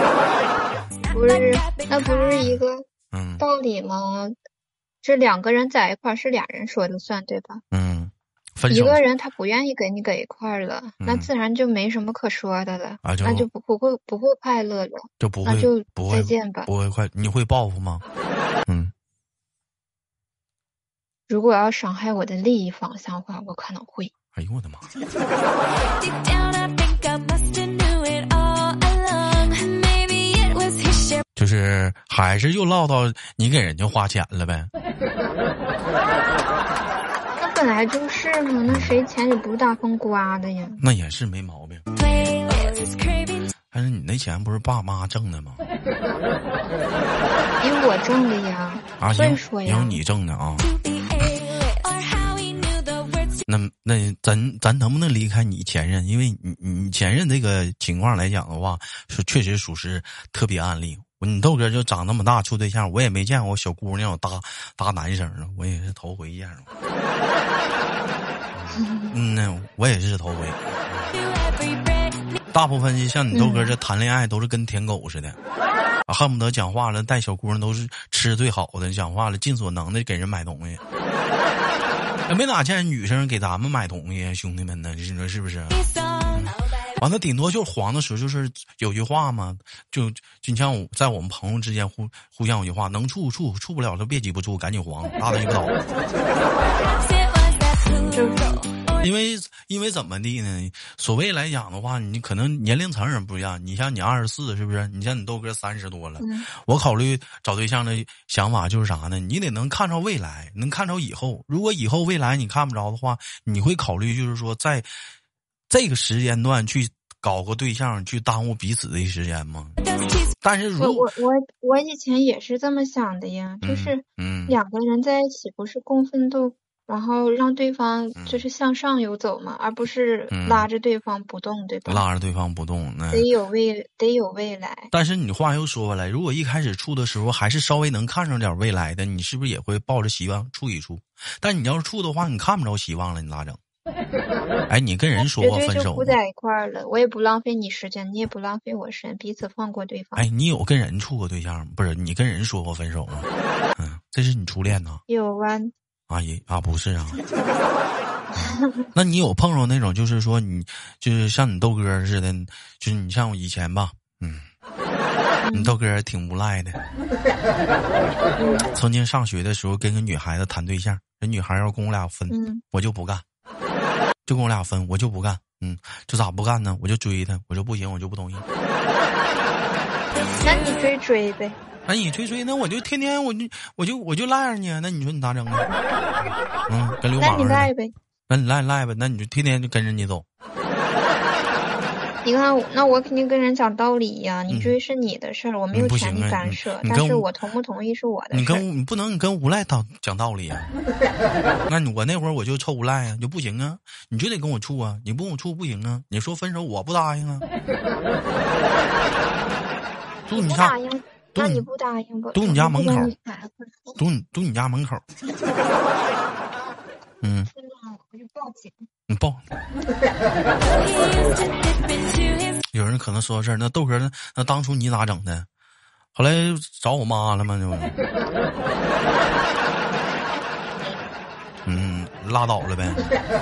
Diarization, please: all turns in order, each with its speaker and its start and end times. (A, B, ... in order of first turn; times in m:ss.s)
0:01.0-0:02.4 A
0:01.1-0:02.9 B
0:03.1-0:03.4 C
0:03.4-0:04.4 B
0:05.0-0:07.6 B
0:07.7-0:09.0 C
0:08.7-0:16.7 B
0:11.0-0:11.3 C
0:13.0-0:13.5 C
0:15.2-0:18.0 C
0:18.6-0:18.9 C
0:21.3-0:24.1 B
0:24.4-0:24.9 C
0:25.9-0:31.2 A
0:31.4-0:34.7 C
0:37.4-0:40.8 B
0:38.7-0:39.0 C
0:40.8-0:41.8 C
0:41.9-0:43.5 A
0:43.7-0:45.6 C
0:47.6-0:50.0 B
0:49.0-0:50.7 C
0:50.6-0:53.4 A
0:53.5-1:06.7 C
1:08.5-1:11.1 C
1:08.7-1:09.1 B
1:11.1-1:12.4 A
1:12.5-1:15.4 C
1:13.3-1:13.8 B
1:16.1-1:20.8 C
1:22.3-1:25.8 C
1:25.7-1:26.9 A
1:26.4-1:35.8 C
1:36.7-1:38.6 A
1:38.1-1:38.6 B
1:39.0-1:54.9 C
1:46.2-1:46.5 B
1:55.7-1:59.8 C
1:59.8-2:00.3 A
2:00.4-2:01.1 C
2:00.8-2:12.0 B
2:03.6-2:04.6 C
2:08.2-2:08.5 C
2:10.3-2:10.7 C
2:11.9-2:13.3 C
2:13.1-2:14.9 B
2:14.9-2:23.6 C
2:24.7-2:26.2 C
2:25.1-2:30.2 B
2:30.2-2:35.0 C
2:35.1-2:35.7 B
2:36.1-2:37.2 C
2:38.3-2:38.9 B
2:38.4-2:44.5 C
2:45.4-2:45.8 B
2:45.5-2:46.8 C
2:48.4-2:48.7 B
2:48.7-2:53.2 C
2:52.3-2:52.6 B
2:54.2-2:58.4 C
3:00.4-3:01.6 B
3:01.9-3:05.7 C
3:06.7-3:07.7 C
3:07.2-3:07.9 B
3:08.3-3:10.2 C
3:12.2-3:18.6 B
3:14.5-3:14.8 C
3:15.7-3:17.3 C
3:18.3-3:20.7 C
3:21.7-3:27.5 C
3:30.3-3:30.7 C
3:30.3-3:34.0 B
3:31.4-3:31.7 C
3:32.4-3:33.1 C
3:34.0-3:35.0 C
3:37.2-3:37.5 C
3:37.5-3:38.8 B
3:39.1-3:39.4 C
3:40.6-3:42.6 A
3:42.7-3:45.5 C
3:46.1-3:47.9 C
3:51.6-3:53.1 C